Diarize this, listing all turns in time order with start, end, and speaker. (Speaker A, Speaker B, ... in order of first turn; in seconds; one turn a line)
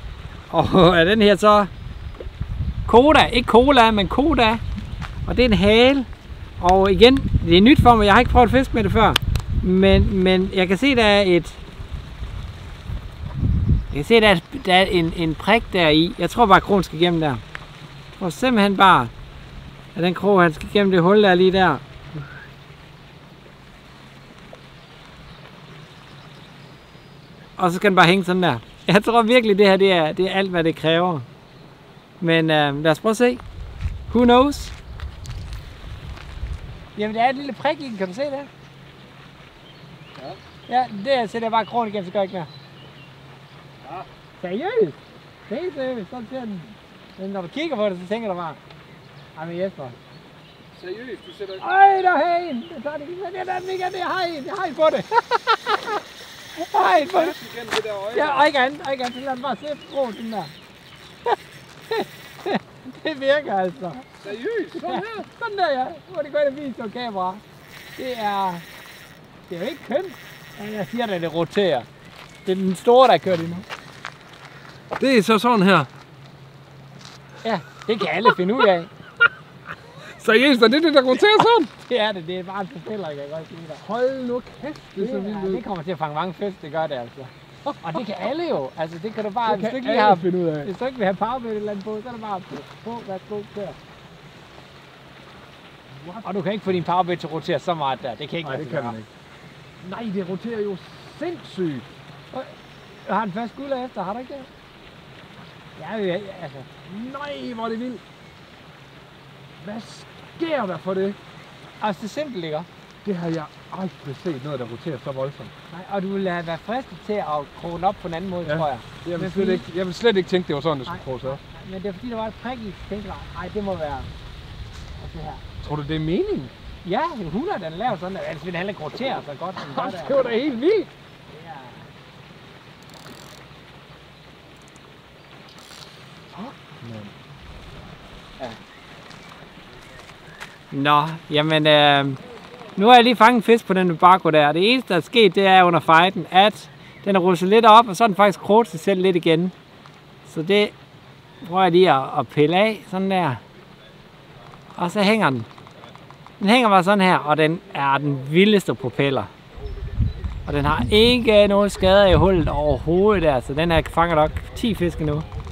Speaker A: 0.5-1.7
Speaker A: 2.9-4.6
Speaker A: 5.2-6.1
Speaker A: 6.6-11.6
Speaker A: 13.9-17.4
Speaker A: 18.1-19.1
Speaker A: 19.9-21.8
Speaker A: 27.6-31.2
Speaker A: 32.2-33.4
Speaker A: 34.1-34.7
Speaker A: 36.9-38.5
Speaker A: 40.7-42.5
Speaker A: 44.4-45.0
Speaker A: 45.5-48.6
Speaker A: 49.3-50.0
Speaker B: 50.7-51.6
Speaker A: 51.6-56.0
Speaker A: 56.5-57.4
Speaker B: 56.8-58.5
Speaker A: 58.1-60.5
Speaker A: 61.9-67.4
Speaker B: 64.2-65.2
Speaker A: 68.0-68.6
Speaker A: 69.5-71.9
Speaker A: 72.4-73.7
Speaker B: 75.0-75.9
Speaker A: 77.4-78.9
Speaker B: 80.0-81.7
Speaker A: 81.2-83.8
Speaker B: 83.8-85.6
Speaker A: 85.0-93.8
Speaker B: 87.7-88.0
Speaker B: 89.4-90.7
Speaker B: 95.9-96.3
Speaker A: 96.2-99.0
Speaker B: 98.4-99.1
Speaker B: 99.8-101.8
Speaker A: 103.0-104.5
Speaker A: 105.8-106.7
Speaker B: 106.8-108.0
Speaker B: 109.6-111.2
Speaker A: 111.8-112.7
Speaker B: 113.0-115.5
Speaker A: 115.7-119.6
Speaker B: 118.4-121.4
Speaker A: 120.8-124.1
Speaker A: 125.0-125.4
Speaker B: 125.6-126.5
Speaker A: 126.8-130.4
Speaker B: 129.7-130.9
Speaker A: 131.3-131.9
Speaker B: 136.3-137.1
Speaker A: 140.7-142.2
Speaker A: 142.7-149.5
Speaker A: 150.2-150.7
Speaker A: 151.4-153.4
Speaker A: 154.8-155.5
Speaker A: 156.4-159.3
Speaker A: 160.4-165.2